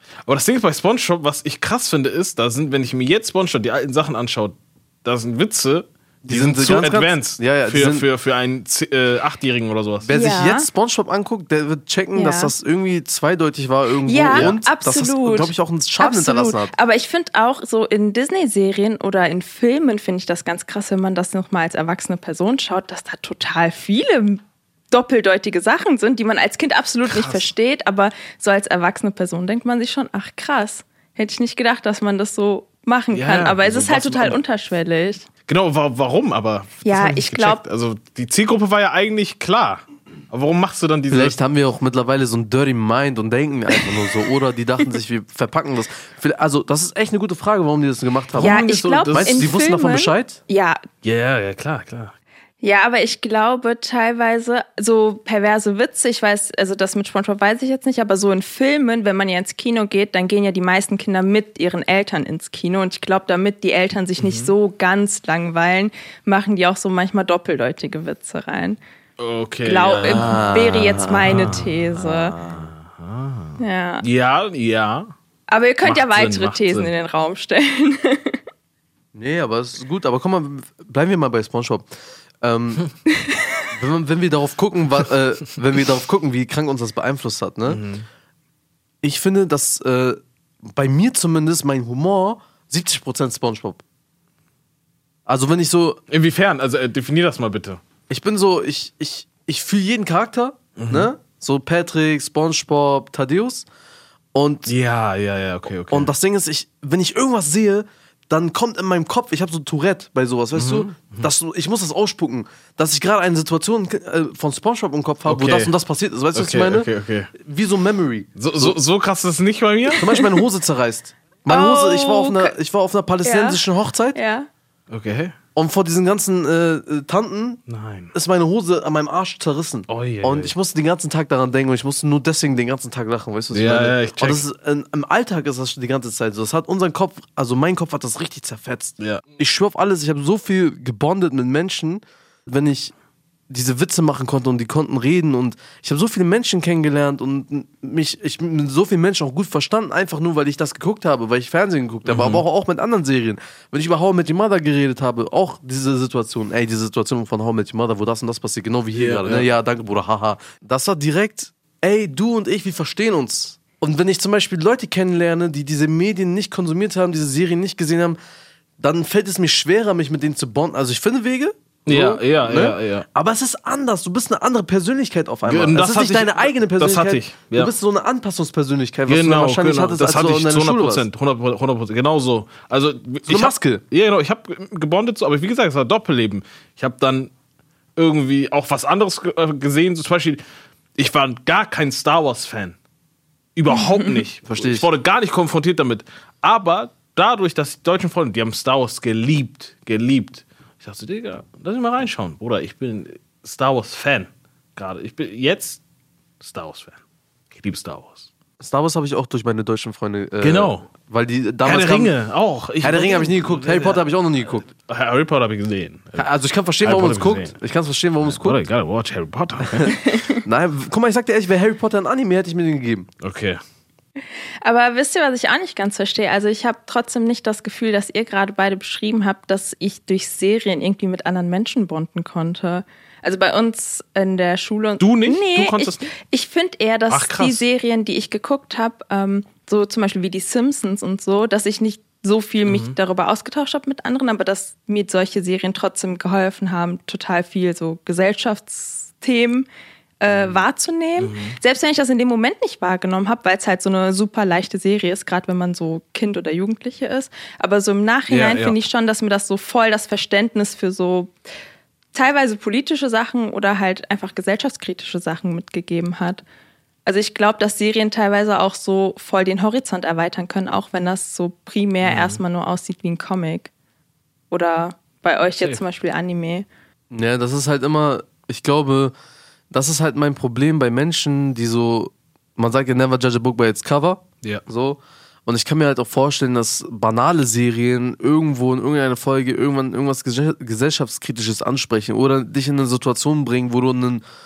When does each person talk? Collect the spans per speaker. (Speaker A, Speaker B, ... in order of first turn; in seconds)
Speaker A: 0.3-10.1, 14.3-14.6, 27.1-27.5, 33.1-34.4, 35.5-41.4, 49.0-49.5, 51.0-52.1, 64.2-64.5, 69.2-75.1, 75.8-76.9, 87.7-88.1, 96.1-97.8, 100.8-101.1, 104.7-106.1, 110.6-111.3, 115.3-115.7, 116.3-117.3, 118.4-120.1, 124.9-125.4, 127.7-128.1, 129.9-130.5, 133.5-134.4, 152.1-152.4, 158.9-159.5, 171.9-173.1, 175.4-177.7, 179.1-187.3, 188.0-190.4, 191.0-192.8, 193.6-205.8, 206.4-207.0, 207.5-208.3, 210.4-210.9, 211.6-214.1, 214.7-216.3, 216.8-217.5, 218.3-220.0, 223.2-223.6, 235.0-236.1, 237.1-237.6, 242.7-243.0, 250.3-250.6, 251.2-251.6, 258.3-258.8, 272.0-272.4
Speaker B: 6.2-8.1, 10.0-16.7, 41.1-50.4, 70.0-71.4, 72.0-72.7, 79.1-81.9, 82.4-82.9, 83.7-87.8, 89.0-93.8, 95.3-96.0, 98.1-103.7, 104.3-104.7, 105.9-118.8, 120.0-124.2, 125.5-127.6, 128.1-142.9, 143.5-168.2, 168.8-181.1, 183.3-183.8, 194.5-194.9, 208.6-212.1, 212.8-214.7, 216.2-218.6, 219.6-223.1, 277.1-279.1, 279.7-294.2
Speaker C: 10.1-10.7, 12.2-12.5, 14.1-35.3, 36.8-37.6, 48.4-50.8, 52.6-68.8, 69.7-72.4, 73.6-74.1, 75.5-78.4, 121.5-122.5, 123.2-123.6, 124.1-124.5, 193.8-194.1, 220.0-220.4, 224.6-249.7, 250.2-261.3, 262.1-266.4, 267.1-273.7, 274.5-276.7